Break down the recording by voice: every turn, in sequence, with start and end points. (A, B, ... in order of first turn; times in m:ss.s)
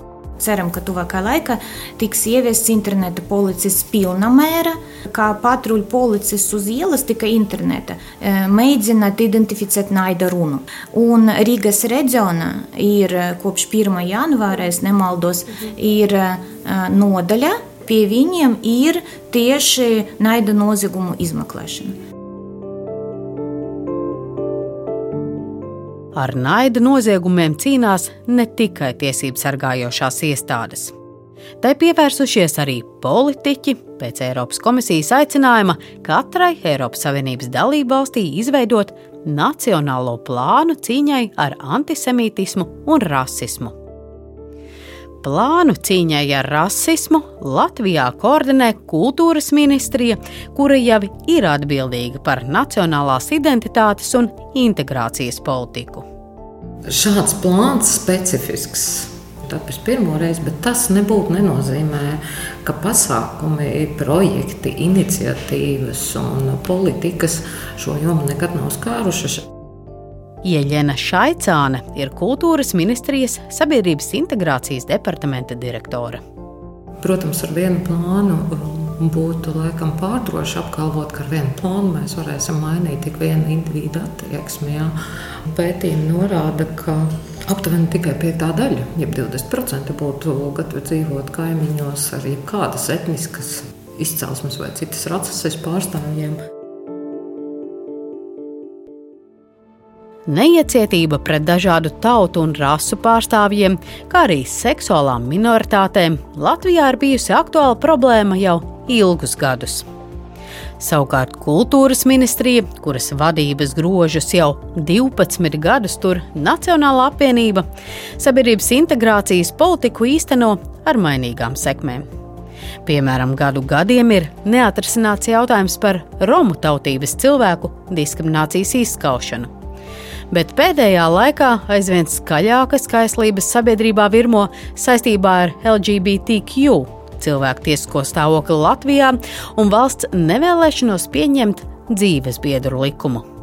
0:00.4-0:22.0 A
0:26.1-0:30.9 B
0:31.6-0:43.7 B
0:45.2-0:56.1 B
0:56.9-1:09.5 C
1:10.4-1:16.2 B
1:17.0-1:25.0 C
1:25.5-1:36.4 C
1:40.3-1:49.8 B
1:50.8-1:57.6 B
1:58.2-2:02.1 B
2:02.8-2:09.5 B
2:10.3-2:23.2 B